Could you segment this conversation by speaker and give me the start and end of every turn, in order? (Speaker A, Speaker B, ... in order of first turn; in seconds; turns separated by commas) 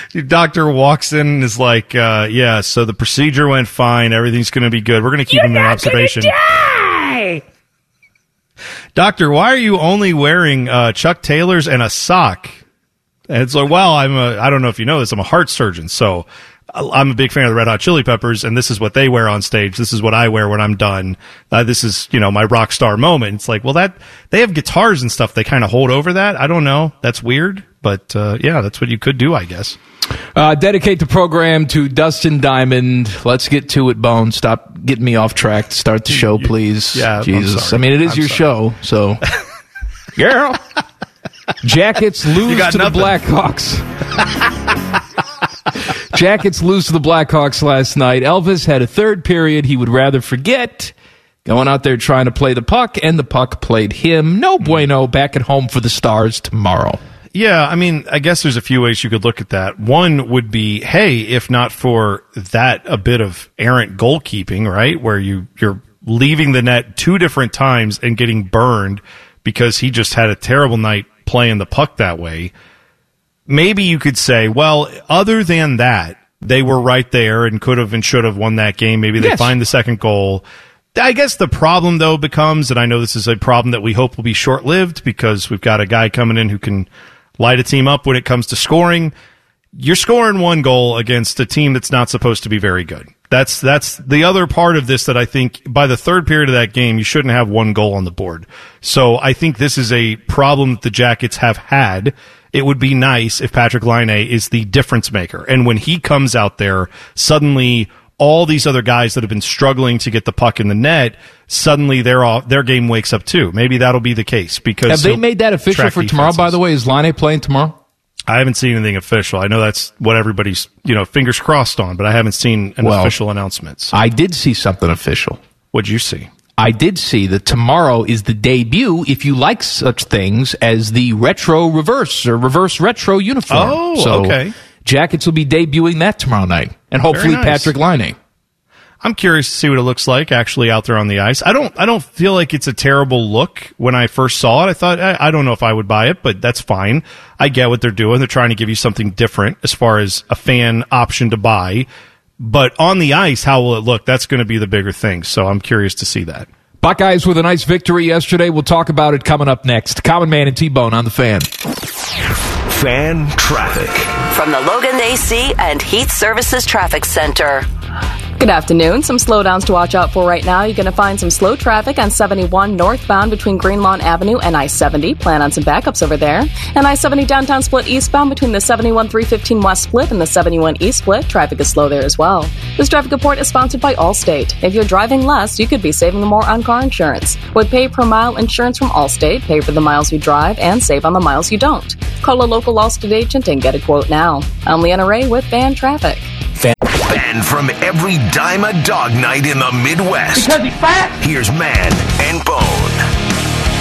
Speaker A: 0.1-6.3, Speaker B: 5.3-7.4, Speaker A: 8.9-12.6, Speaker A: 13.3-29.8, Speaker B: 30.3-39.2, Speaker A: 36.1-38.5, Speaker B: 40.1-40.6, Speaker B: 41.6-43.9, Speaker A: 42.4-43.2, Speaker B: 46.1-50.9, Speaker B: 51.4-57.0, Speaker A: 57.3-72.5, Speaker A: 73.5-80.4, Speaker B: 79.2-79.5, Speaker A: 80.9-89.1, Speaker A: 89.8-116.6, Speaker B: 114.9-117.8, Speaker A: 118.3-123.9, Speaker B: 122.8-123.1, Speaker B: 123.9-125.4, Speaker A: 125.7-126.3, Speaker B: 126.6-138.2, Speaker A: 133.5-134.5, Speaker A: 137.1-137.7, Speaker A: 139.0-151.9, Speaker A: 152.4-156.5, Speaker B: 156.8-161.5, Speaker C: 162.7-164.2, Speaker D: 164.3-167.7, Speaker E: 168.4-196.3, Speaker C: 197.0-200.6, Speaker B: 200.3-201.2, Speaker C: 201.2-203.0